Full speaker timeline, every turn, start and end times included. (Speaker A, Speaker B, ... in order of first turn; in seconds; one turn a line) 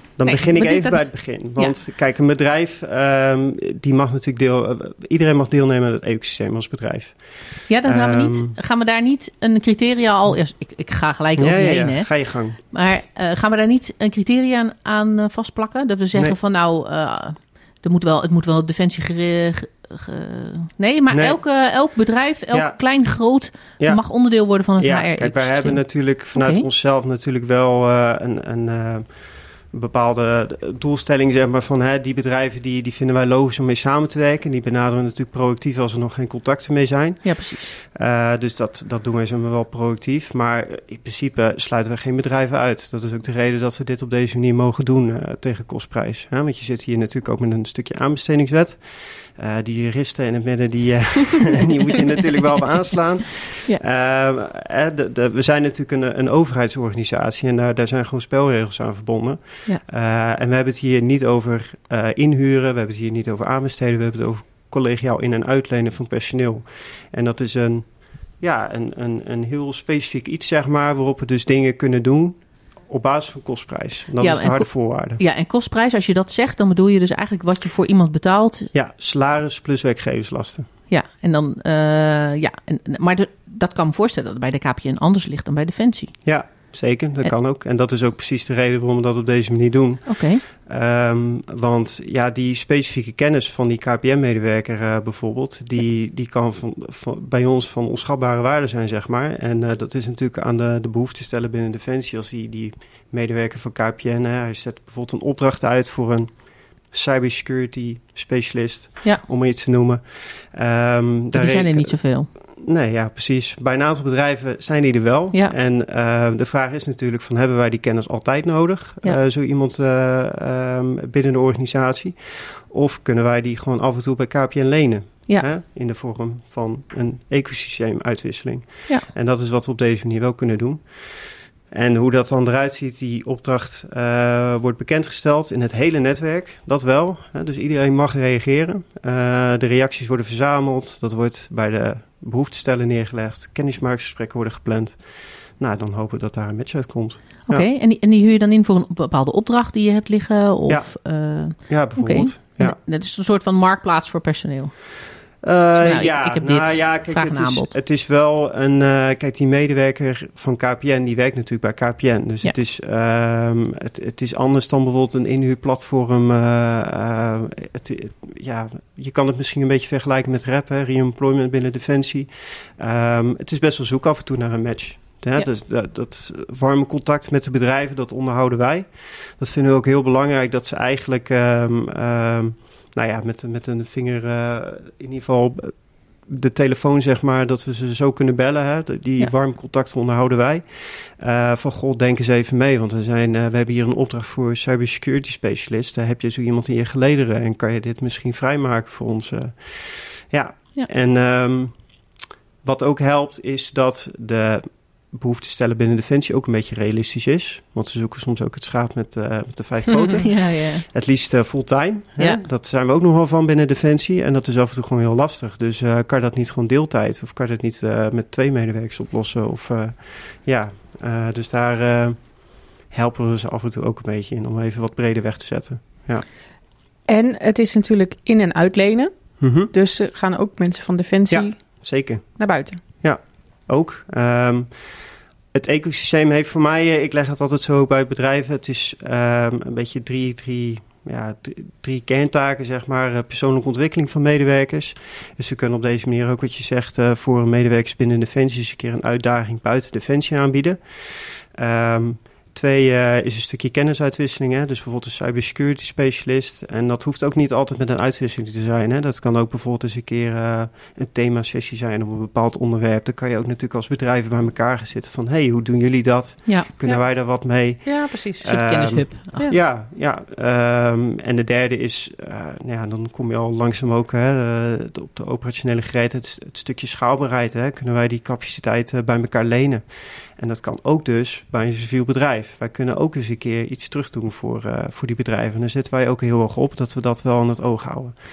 Speaker A: 0.2-8.6
Speaker B: 0.2-1.8
Speaker B: 7.7-26.6
Speaker A: 11.4-12.6
Speaker A: 21.1-21.4
Speaker A: 22.5-22.8
Speaker A: 23.8-24.0
Speaker A: 24.8-75.2
Speaker B: 37.2-37.8
Speaker B: 74.2-78.7
Speaker A: 78.7-80.7
Speaker B: 80.9-86.5
Speaker A: 86.2-147.7
Speaker B: 90.1-90.4
Speaker B: 111.3-112.3
Speaker B: 147.5-155.0
Speaker A: 150.7-152.8
Speaker A: 155.4-202.1
Speaker B: 155.8-157.8
Speaker A: 202.6-226.3
Speaker B: 209.9-210.8
Speaker C: 227.1-232.8
Speaker A: 229.4-229.7
Speaker A: 231.3-288.1
Speaker C: 266.8-268.5
Speaker B: 268.4-269.6